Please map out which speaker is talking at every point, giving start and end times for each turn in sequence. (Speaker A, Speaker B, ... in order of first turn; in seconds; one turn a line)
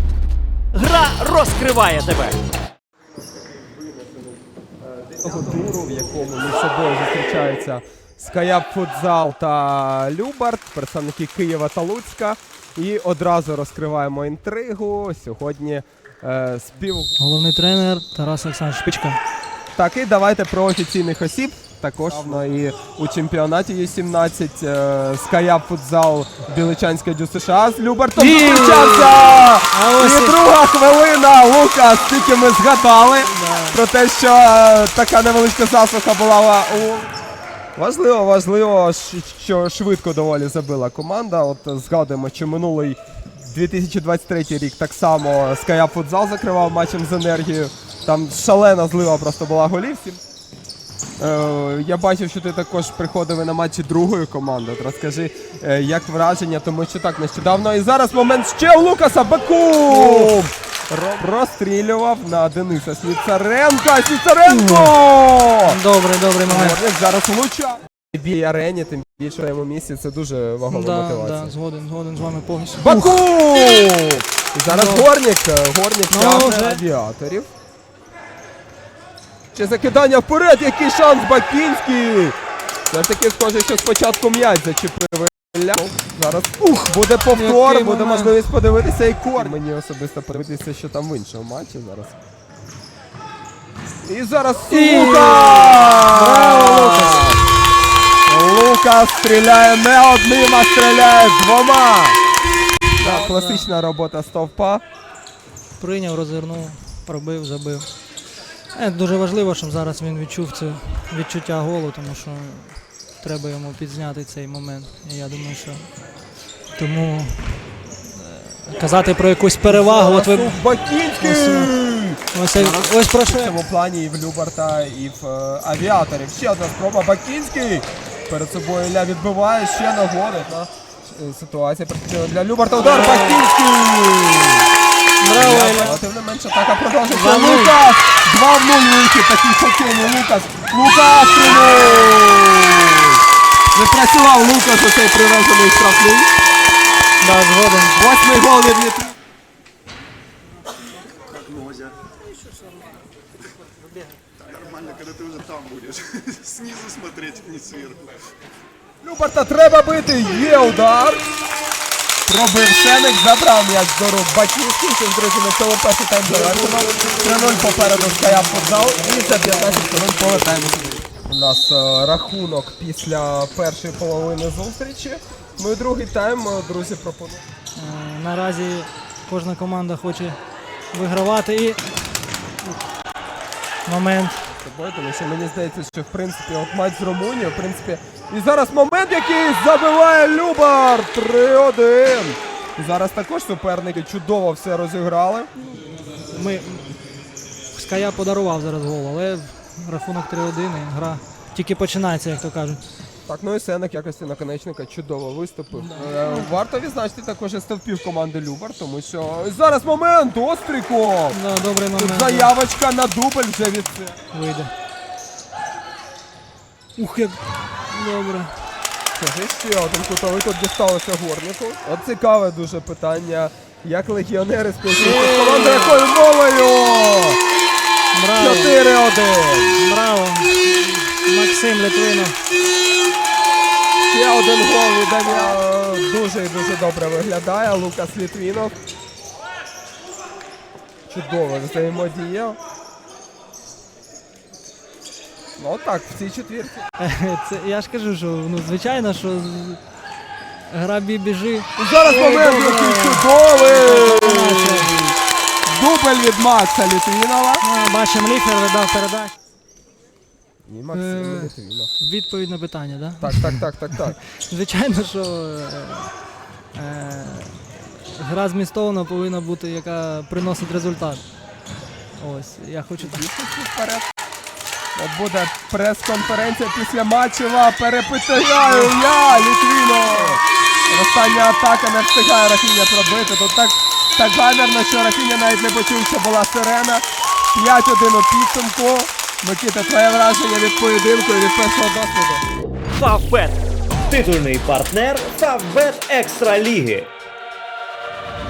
Speaker A: 0.7-2.4
Speaker B: 5.0-17.1
Speaker C: 17.2-19.2
Speaker B: 19.7-37.1
Speaker C: 28.1-30.4
Speaker C: 33.3-33.8
Speaker B: 37.8-50.2
Speaker B: 51.2-65.8
Speaker C: 59.9-60.4
Speaker C: 64.4-64.9
Speaker C: 65.6-66.8
Speaker B: 66.5-71.5
Speaker C: 70.7-73.2
Speaker B: 72.8-77.5
Speaker C: 74.7-75.1
Speaker C: 76.1-76.8
Speaker B: 79.5-82.3
Speaker B: 82.9-92.2
Speaker C: 87.3-88.5
Speaker B: 94.0-97.4
Speaker C: 94.7-97.3
Speaker B: 98.2-102.2
Speaker C: 102.9-103.7
Speaker B: 103.0-104.8
Speaker C: 105.8-115.9
Speaker C: 116.7-123.5
Speaker B: 119.6-134.7
Speaker C: 132.7-133.5
Speaker C: 135.2-136.0
Speaker B: 135.3-143.2
Speaker C: 137.1-137.8
Speaker B: 143.7-146.3
Speaker C: 147.2-148.0
Speaker B: 147.9-149.1
Speaker D: 151.3-151.9
Speaker D: 154.4-158.2
Speaker B: 159.0-161.2
Speaker B: 162.2-177.4
Speaker C: 177.7-180.4
Speaker C: 180.9-181.9
Speaker C: 183.8-184.4
Speaker B: 184.5-195.5
Speaker C: 196.3-196.9
Speaker C: 197.7-202.8
Speaker B: 203.3-211.4
Speaker C: 205.7-206.5
Speaker C: 211.3-212.5
Speaker B: 211.9-214.2
Speaker C: 214.3-214.7
Speaker C: 216.9-218.7
Speaker B: 219.1-227.4
Speaker C: 225.0-226.0
Speaker C: 228.1-228.8
Speaker B: 228.3-229.8
Speaker C: 229.7-232.4
Speaker B: 234.1-238.7
Speaker B: 241.1-242.6
Speaker B: 245.6-246.8
Speaker C: 247.0-255.0
Speaker B: 251.8-255.1
Speaker B: 255.7-257.6
Speaker C: 257.6-259.3
Speaker B: 260.6-261.9
Speaker C: 260.9-266.1
Speaker B: 263.2-264.2
Speaker C: 266.7-271.2
Speaker C: 272.1-273.4
Speaker B: 273.0-274.1
Speaker B: 274.9-292.4
Speaker C: 278.7-279.0
Speaker A: 292.9-297.1